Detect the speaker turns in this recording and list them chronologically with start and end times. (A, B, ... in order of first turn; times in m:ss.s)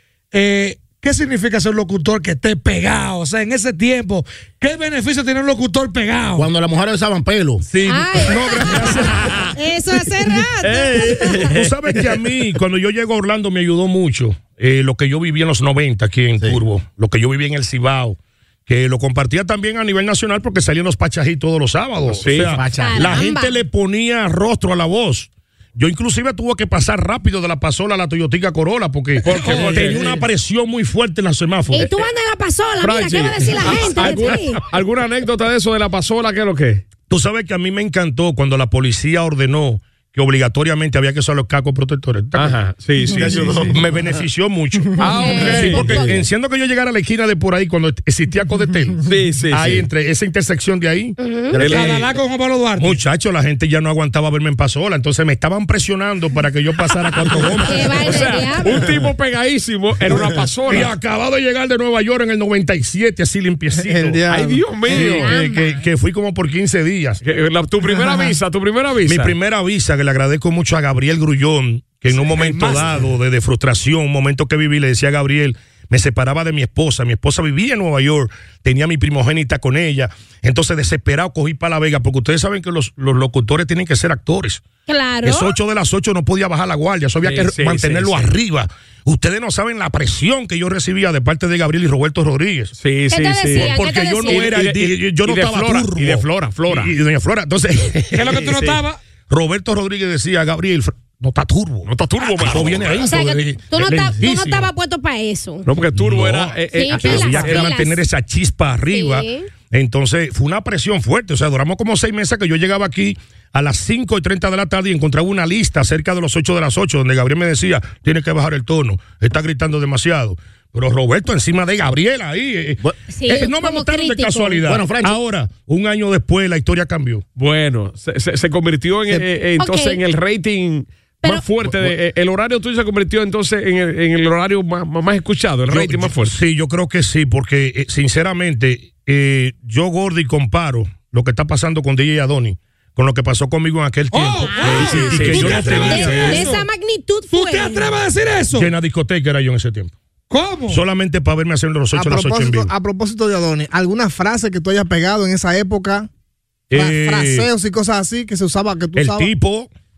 0:00.3-0:06.5 A
0:06.4-0:07.6 B
0:07.6-0:09.5 C
0:07.8-0:11.5 D
0:09.1-0:09.5 E
0:10.6-0:12.2 E
0:11.4-0:31.9 C
0:22.1-0:22.6 E
0:22.5-0:23.2 B
0:22.8-0:23.6 D
0:29.2-0:30.2 E
0:29.3-0:29.9 A
0:31.7-0:34.6 D
0:32.8-0:36.8 E
0:37.1-0:42.6 C
0:42.3-0:43.7 E
0:43.1-0:51.2 C
0:43.2-0:43.8 B
0:45.0-0:45.9 E
0:45.0-0:46.1 D
0:45.8-0:46.2 B
0:49.0-0:49.8 E
0:51.2-0:51.6 D
0:51.5-0:52.0 B
0:51.6-0:52.1 E
0:51.6-0:53.0 A
0:52.8-0:58.9 C
0:57.3-1:00.9 E
0:57.6-0:58.9 D
1:00.1-1:00.4 F
1:00.6-1:04.2 C
1:03.7-1:04.7 F
1:04.3-1:05.3 E
1:04.9-1:07.2 C
1:04.9-1:05.8 D
1:07.2-1:09.4 E
1:08.0-1:08.3 F
1:09.0-1:24.6 C
1:12.1-1:13.0 A
1:24.9-1:25.5 D
1:25.2-1:32.7 C
1:27.2-1:28.3 E
1:32.8-1:36.9 E
1:33.1-1:34.6 D
1:33.5-1:38.4 C
1:38.1-1:39.0 A
1:38.2-1:38.8 E
1:39.3-1:41.9 C
1:41.8-1:43.1 E
1:42.3-1:45.7 D
1:42.4-1:44.7 C
1:42.5-1:43.2 B
1:45.6-1:47.8 E
1:45.9-2:07.2 C
1:46.7-1:48.0 D
1:48.9-1:49.5 D
2:03.1-2:04.6 D
2:04.6-2:05.2 B
2:07.4-2:16.4 E
2:09.6-2:10.0 D
2:15.7-2:26.5 C
2:24.1-2:26.7 A
2:24.4-2:28.0 D
2:27.3-2:28.7 A
2:28.5-2:29.9 C
2:30.3-2:30.8 A
2:30.7-2:32.7 C
2:31.9-2:36.1 F
2:36.7-2:37.5 C
2:36.7-2:39.3 F
2:39.0-2:39.7 C